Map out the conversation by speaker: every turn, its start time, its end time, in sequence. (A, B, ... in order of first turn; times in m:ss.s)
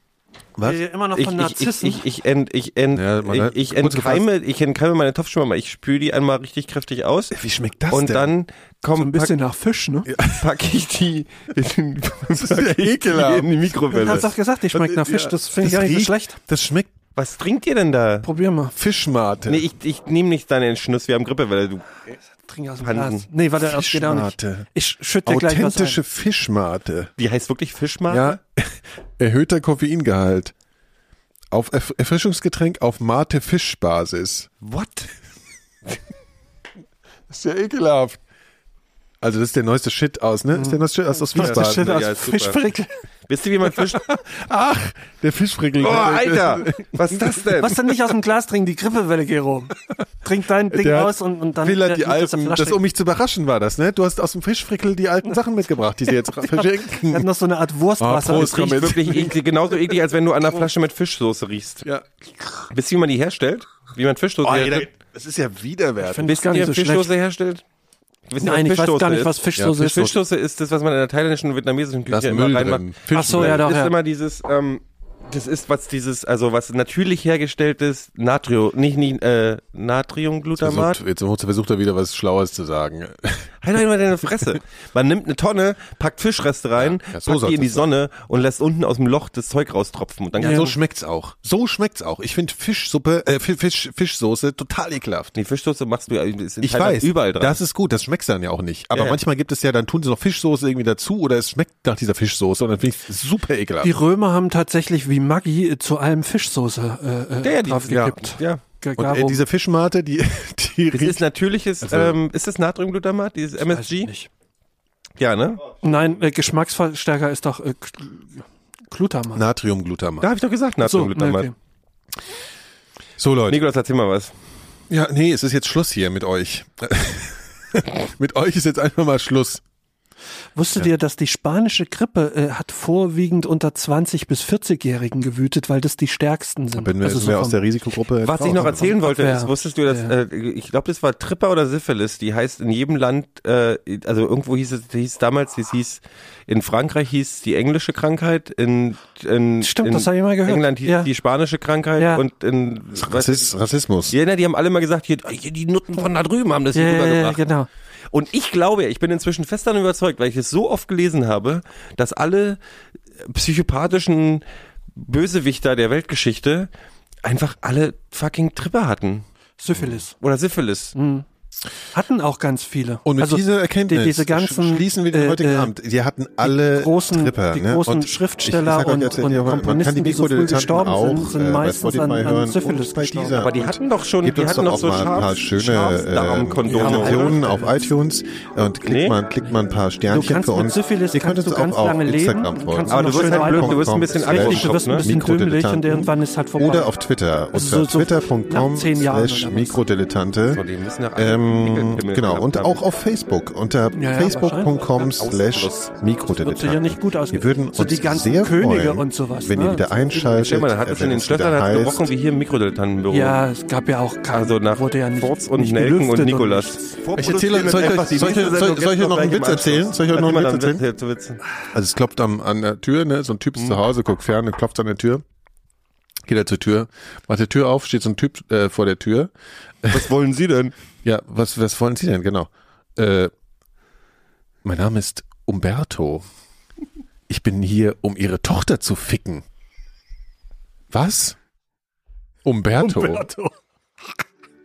0:00.6-0:02.0 A
0:01.2-0:07.4 B
0:02.9-0:04.2 C
0:07.3-0:08.3 C
0:07.9-0:09.4 B
0:09.0-0:10.1 A
0:10.1-0:10.4 C
0:10.2-0:14.3 B
0:12.4-0:17.0 C
0:13.9-0:16.4 A
0:17.2-0:18.3 B
0:18.2-0:18.8 A
0:18.8-0:19.6 C
0:19.5-0:22.0 B
0:22.4-0:26.0 A
0:22.8-0:23.2 B
0:23.6-0:24.7 C
0:25.2-0:27.1 C
0:27.2-0:28.4 B
0:28.1-0:30.5 C
0:31.5-0:34.5 C
0:34.6-0:35.1 B
0:37.3-0:38.2 C
0:39.2-0:42.0 C
0:40.6-0:40.8 A
0:41.3-0:42.9 A
0:41.4-0:42.6 B
0:43.3-0:44.0 B
0:44.0-0:47.5 C
0:45.8-0:47.8 B
0:47.6-0:52.8 A
0:50.7-0:57.3 C
0:56.2-0:58.9 A
0:58.0-0:59.4 C
0:58.3-1:01.9 B
1:01.8-1:02.7 C
1:02.7-1:04.9 B
1:04.4-1:06.3 C
1:06.0-1:07.1 A
1:06.3-1:07.6 B
1:08.3-1:21.0 B
1:08.4-1:10.1 A
1:09.6-1:10.0 C
1:12.1-1:13.6 C
1:13.1-1:13.9 A
1:20.6-1:23.5 C
1:23.6-1:30.8 B
1:26.8-1:27.9 C
1:30.4-1:30.7 A
1:30.4-1:35.3 C
1:35.4-1:37.6 B
1:36.6-1:43.9 C
1:38.9-1:39.2 B
1:43.8-1:49.4 A
1:47.4-1:48.6 B
1:47.9-1:48.2 C
1:49.0-1:51.2 C
1:50.9-1:54.1 B
1:51.8-1:52.2 C
1:53.6-1:54.3 A
1:55.2-1:55.7 B
1:55.8-1:59.4 A
1:59.3-2:00.3 C
2:00.2-2:01.5 B
2:00.8-2:01.5 A
2:03.2-2:03.6 C
2:03.5-2:04.4 B
2:04.9-2:09.6 C
2:10.6-2:17.6 A
2:16.7-2:18.9 C
2:18.2-2:33.5 B
2:18.8-2:20.1 A
2:29.6-2:31.1 A
2:32.0-2:32.2 A
2:33.0-2:34.1 C
2:34.1-2:37.5 B
2:36.8-2:37.7 A
2:38.1-2:42.6 B
2:43.2-2:44.4 B
2:45.0-2:46.7 B
2:47.2-2:49.2 B
2:49.6-2:50.1 A
2:50.2-2:50.9 B
2:51.0-2:51.3 A
2:51.9-2:55.7 A
2:53.0-3:20.6 C
2:56.4-3:03.4 A
3:03.4-3:07.4 B
3:06.7-3:07.9 A
3:08.8-3:09.2 B
3:10.1-3:16.9 A
3:12.9-3:15.1 B
3:17.5-3:19.8 A
3:20.5-3:22.8 B
3:21.2-3:32.1 C
3:23.9-3:24.9 A
3:25.0-3:25.9 B
3:26.3-3:30.4 A
3:30.4-3:33.4 B
3:33.1-3:36.8 A
3:34.3-3:41.4 B
3:37.2-3:40.8 C
3:41.7-3:45.2 C
3:46.3-3:49.3 C
3:49.8-3:50.1 C
3:49.9-3:50.7 B
3:51.0-3:53.3 C
3:54.6-3:56.2 C
3:57.3-3:59.4 C
4:00.9-4:01.4 C
4:02.4-4:03.3 C
4:02.8-4:03.5 A